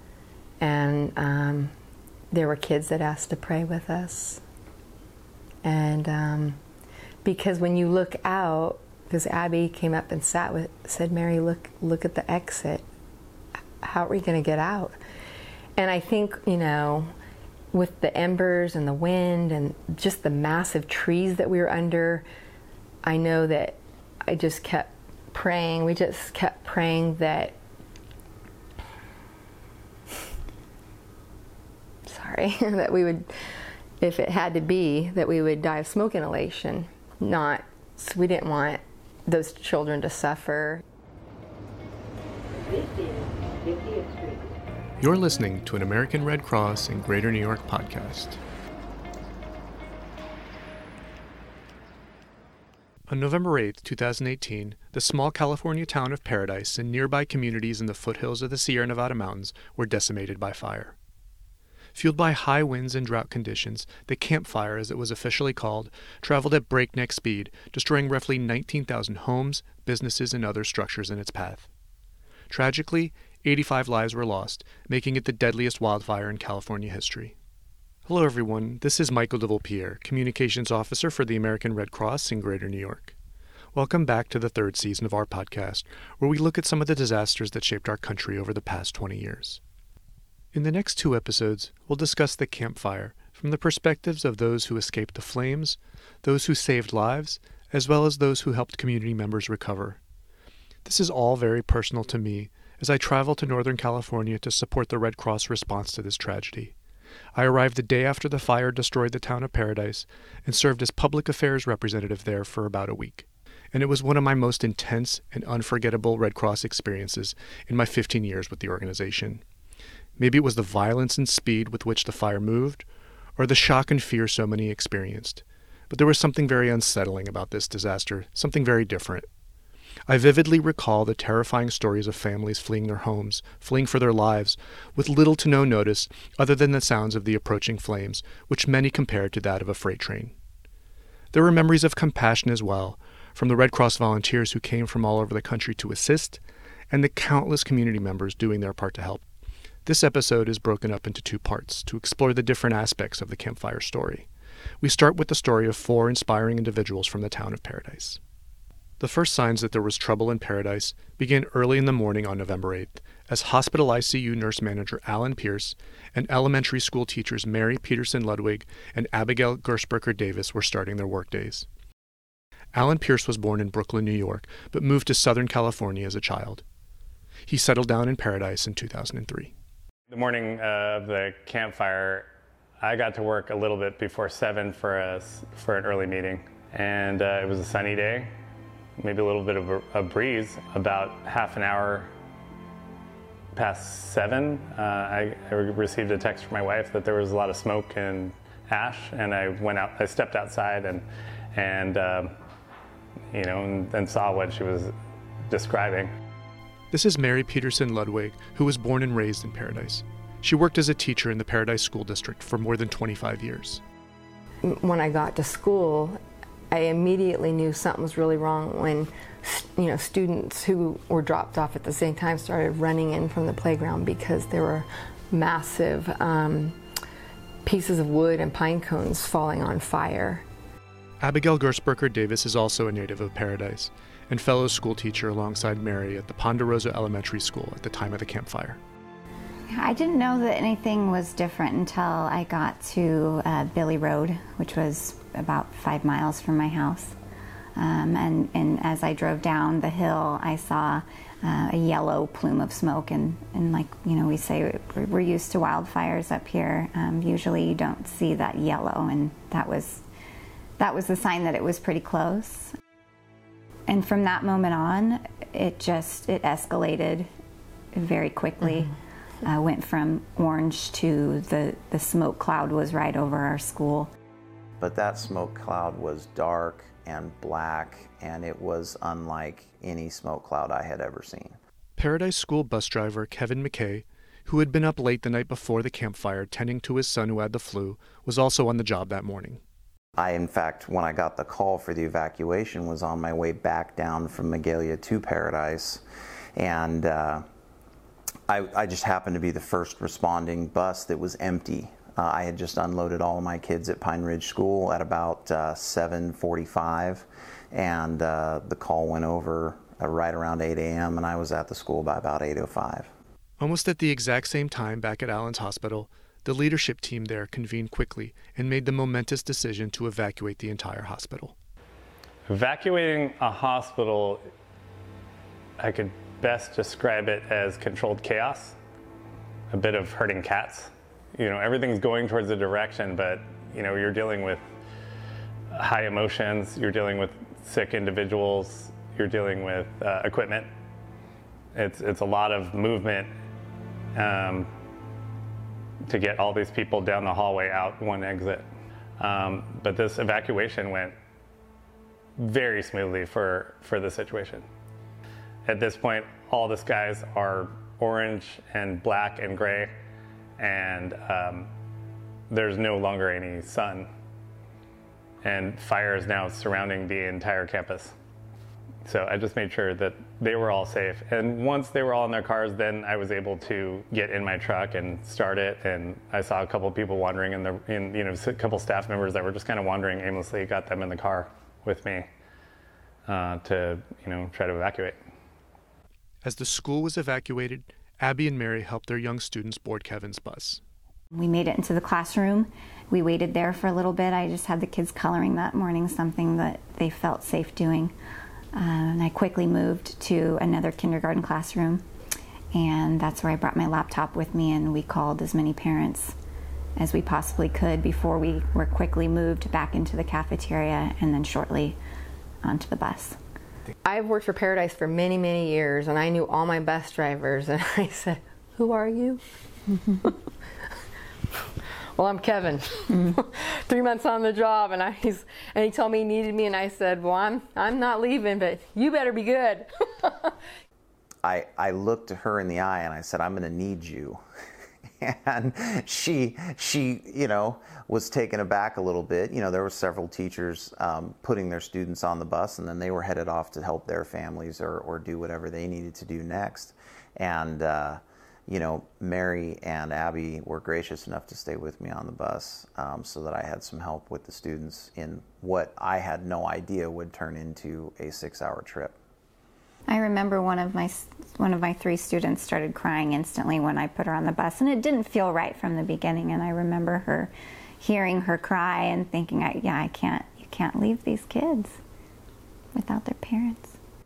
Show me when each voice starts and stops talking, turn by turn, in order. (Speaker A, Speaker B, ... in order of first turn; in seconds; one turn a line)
Speaker A: 0.6-1.7
Speaker A: 2.3-4.4
Speaker A: 5.6-6.6
Speaker A: 7.2-12.8
Speaker A: 13.8-14.9
Speaker A: 15.8-17.1
Speaker A: 17.7-22.2
Speaker A: 23.0-27.6
Speaker A: 32.0-33.3
Speaker A: 34.0-40.8
Speaker B: 45.0-48.4
Speaker B: 53.1-61.0
Speaker B: 61.9-71.7
Speaker B: 72.5-77.3
Speaker B: 78.0-83.1
Speaker B: 83.7-89.6
Speaker B: 90.5-100.0
Speaker B: 100.8-106.7
Speaker B: 107.3-119.4
Speaker B: 120.2-122.8
Speaker B: 123.4-129.3
Speaker B: 130.1-140.3
Speaker B: 141.3-149.2
Speaker B: 149.8-154.3
Speaker B: 154.8-158.2
Speaker B: 159.0-171.7
Speaker B: 172.7-176.6
Speaker B: 177.5-179.5
Speaker C: 180.1-182.3
Speaker C: 182.8-188.3
Speaker C: 189.0-192.1
Speaker C: 193.5-201.0
Speaker C: 201.5-202.3
Speaker C: 203.3-204.9
Speaker C: 205.5-206.1
Speaker B: 206.9-213.8
Speaker A: 214.6-216.2
Speaker A: 216.7-226.8
Speaker A: 227.6-230.4
Speaker B: 231.2-238.8
Speaker D: 239.7-247.2
Speaker D: 247.8-260.0
Speaker D: 260.8-262.7
Speaker D: 263.9-267.3
Speaker D: 267.9-274.1
Speaker E: 274.8-281.6
Speaker B: 282.0-289.6
Speaker E: 290.2-296.0
Speaker E: 296.6-297.4
Speaker E: 298.5-313.1
Speaker B: 313.6-321.5
Speaker C: 322.5-324.4
Speaker C: 325.8-328.8
Speaker C: 329.7-334.6
Speaker C: 335.7-340.7
Speaker C: 341.7-343.3
Speaker C: 344.1-344.7
Speaker C: 346.1-348.6
Speaker C: 349.2-351.1
Speaker C: 352.4-354.6
Speaker C: 355.6-359.9
Speaker C: 360.6-361.7
Speaker C: 362.5-364.1
Speaker C: 365.4-368.1
Speaker C: 369.0-382.3
Speaker C: 383.2-385.2
Speaker B: 386.4-390.8
Speaker D: 391.3-398.1
Speaker D: 398.7-402.0
Speaker D: 402.7-406.3
Speaker D: 407.0-412.0
Speaker D: 412.6-413.4
Speaker A: 414.0-419.4
Speaker A: 422.1-430.5
Speaker E: 431.4-434.4
Speaker E: 435.2-459.1
Speaker D: 460.1-472.0
Speaker D: 472.9-473.9